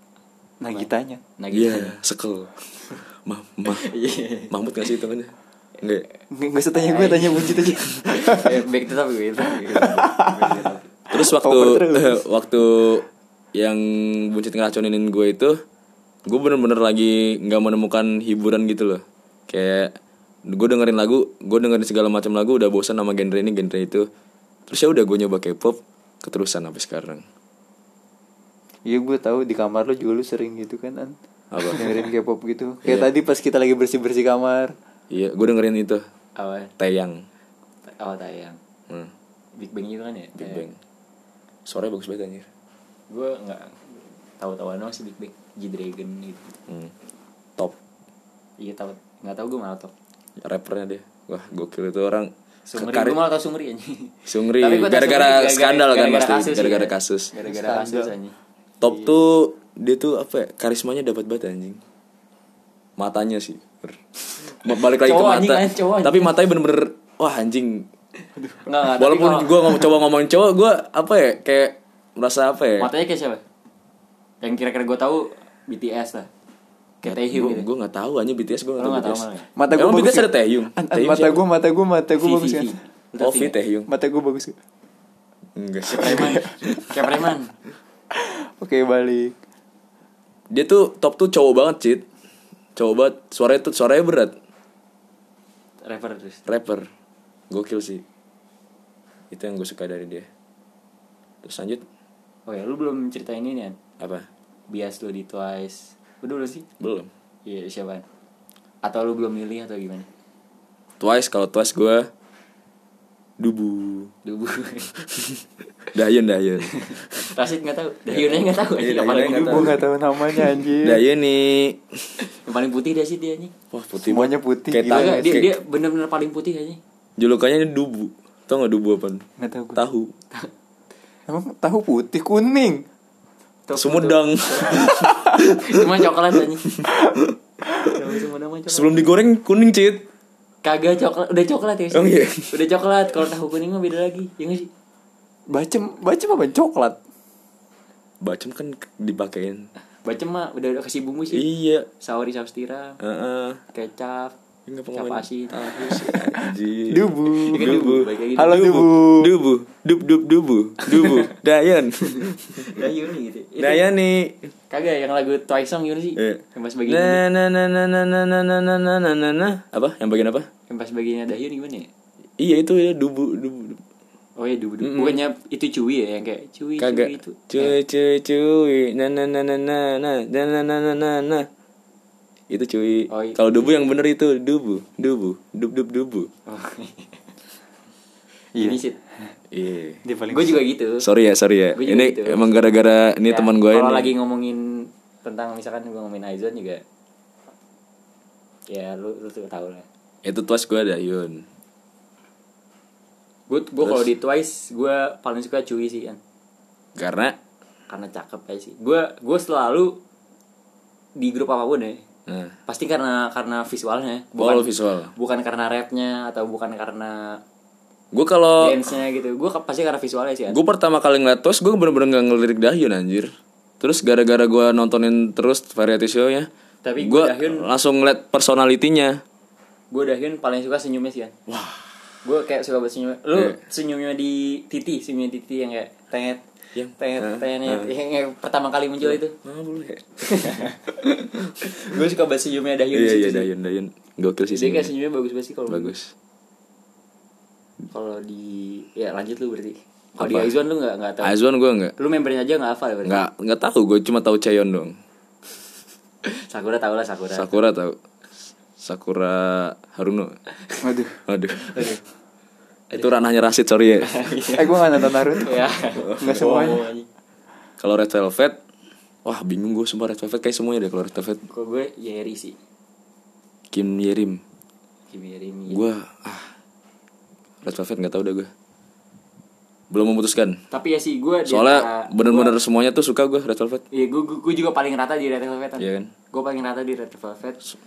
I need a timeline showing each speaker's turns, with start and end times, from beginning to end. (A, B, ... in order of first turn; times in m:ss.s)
0:00.6-0:01.2 A
0:01.4-0:02.0 B
0:01.5-0:03.9 C
0:03.7-0:04.5 B
0:04.5-0:06.0 C
0:06.3-0:08.6 A
0:06.8-0:10.8 B
0:09.6-0:12.2 A
0:11.1-0:15.6 C
0:16.2-0:19.9 C
0:20.5-0:24.1 C
0:24.7-0:27.2 C
0:28.8-0:34.7 A
0:31.5-0:32.0 C
0:32.8-0:33.1 C
0:35.1-0:36.0 C
0:36.4-0:36.7 B
0:36.8-0:37.2 C
0:37.8-0:38.6 B
0:39.6-0:40.6 B
0:40.4-0:40.8 C
0:41.6-0:42.5 C
0:43.1-0:46.5 B
0:46.7-0:46.9 C
0:48.6-0:49.9 B
0:50.4-0:53.2 C
0:52.7-0:58.3 B
0:54.2-0:57.3 C
0:57.4-0:58.1 A
0:58.8-1:01.8 C
1:03.0-1:07.9 C
1:04.8-1:06.3 B
1:08.5-1:09.9 B
1:09.0-1:12.9 C
1:12.8-1:13.4 B
1:14.4-1:16.3 B
1:17.0-1:17.6 B
1:17.0-1:21.4 C
1:18.8-1:19.5 B
1:19.6-1:22.7 A
1:22.2-1:23.5 B
1:23.2-1:23.9 C
1:23.9-1:24.6 A
1:25.6-1:26.8 C
1:26.0-1:26.8 A
1:26.0-1:27.5 B
1:28.1-1:29.3 A
1:30.5-1:32.0 C
1:32.8-1:34.4 C
1:35.8-1:36.4 B
1:36.4-1:36.9 C
1:37.5-1:38.0 C
1:39.3-1:40.3 C
1:41.4-1:41.8 C
1:42.5-1:43.8 B
1:44.0-1:44.3 C
1:44.7-1:46.6 B
1:46.8-1:47.1 C
1:47.4-1:48.0 B
1:48.8-1:50.1 B
1:51.0-1:52.1 C
1:53.4-1:54.1 C
1:54.2-1:54.9 B
1:55.2-1:57.3 C
1:56.7-1:59.8 B
1:58.1-1:59.8 C
1:59.2-2:01.0 A
2:00.8-2:02.2 C
2:02.2-2:03.5 B
2:03.7-2:05.5 C
2:04.0-2:05.4 A
2:04.9-2:06.8 B
2:07.2-2:09.2 C
2:09.4-2:09.8 A
2:09.7-2:10.1 C
2:11.3-2:12.8 A
2:13.7-2:16.7 B
2:13.7-2:16.1 C
2:14.9-2:15.4 A
2:16.6-2:17.3 C
2:16.8-2:17.2 A
2:17.8-2:19.1 B
2:18.7-2:20.0 C
2:20.6-2:24.7 B
2:21.9-2:22.6 C
2:25.5-2:27.0 A
2:28.2-2:29.7 C
2:30.0-2:31.4 B
2:31.3-2:31.9 C
2:32.0-2:33.0 B
2:33.0-2:33.6 C
2:33.7-2:34.3 B
2:34.7-2:42.7 C
2:34.9-2:36.2 B
2:36.9-2:39.4 A
2:37.4-2:38.8 B
2:40.8-2:41.3 B
2:42.1-2:43.9 B
2:43.6-2:44.5 C
2:44.7-2:47.2 B
2:46.2-2:50.5 C
2:50.7-2:51.9 B
2:52.4-2:53.8 C
2:54.4-2:57.8 B
2:54.8-2:55.2 C
2:56.8-3:01.5 C
3:02.5-3:06.3 C
3:03.1-3:03.4 B
3:06.5-3:07.2 B
3:08.5-3:08.8 A
3:08.6-3:09.0 B
3:09.5-3:10.0 C
3:10.0-3:10.6 A
3:10.3-3:11.0 B
3:11.0-3:14.1 C
3:11.7-3:12.6 B
3:13.2-3:16.8 B
3:18.7-3:19.8 B
3:20.2-3:21.4 C
3:23.5-3:26.2 B
3:23.8-3:24.1 C
3:26.9-3:27.4 C
3:27.9-3:30.0 B
3:31.2-3:32.0 B
3:32.3-3:32.5 C
3:32.7-3:37.4 B
3:34.3-3:35.1 C
3:38.1-3:38.8 C
3:38.6-3:40.6 B
3:40.5-3:46.5 C
3:46.8-3:47.7 B
3:47.0-3:49.2 C
3:49.9-3:51.3 B
3:51.5-3:51.9 C
3:52.2-3:56.4 B
3:56.7-3:57.9 C
3:57.0-3:59.4 B
3:59.1-4:00.6 C
4:00.2-4:01.0 B
4:01.6-4:03.5 B
4:02.9-4:04.9 C
4:04.5-4:05.9 B
4:05.7-4:06.1 C
4:07.9-4:11.3 B
4:10.2-4:10.5 C
4:11.2-4:11.9 C
4:12.0-4:13.2 B
4:13.0-4:15.0 C
4:16.2-4:17.5 B
4:17.3-4:18.0 C
4:18.8-4:20.4 C
4:20.8-4:21.2 A
4:21.2-4:21.7 C
4:21.5-4:22.0 B
4:22.9-4:24.2 C
4:24.0-4:27.0 B
4:24.5-4:26.9 A
4:27.8-4:28.6 C
4:29.2-4:31.4 C
4:31.5-4:32.6 B
4:33.7-4:34.4 C
4:35.1-4:35.8 B
4:35.7-4:36.5 C
4:37.6-4:38.5 C
4:39.9-4:40.6 C
4:40.7-4:42.6 B
4:41.5-4:43.8 C
4:43.9-4:47.6 B
4:45.8-4:46.1 C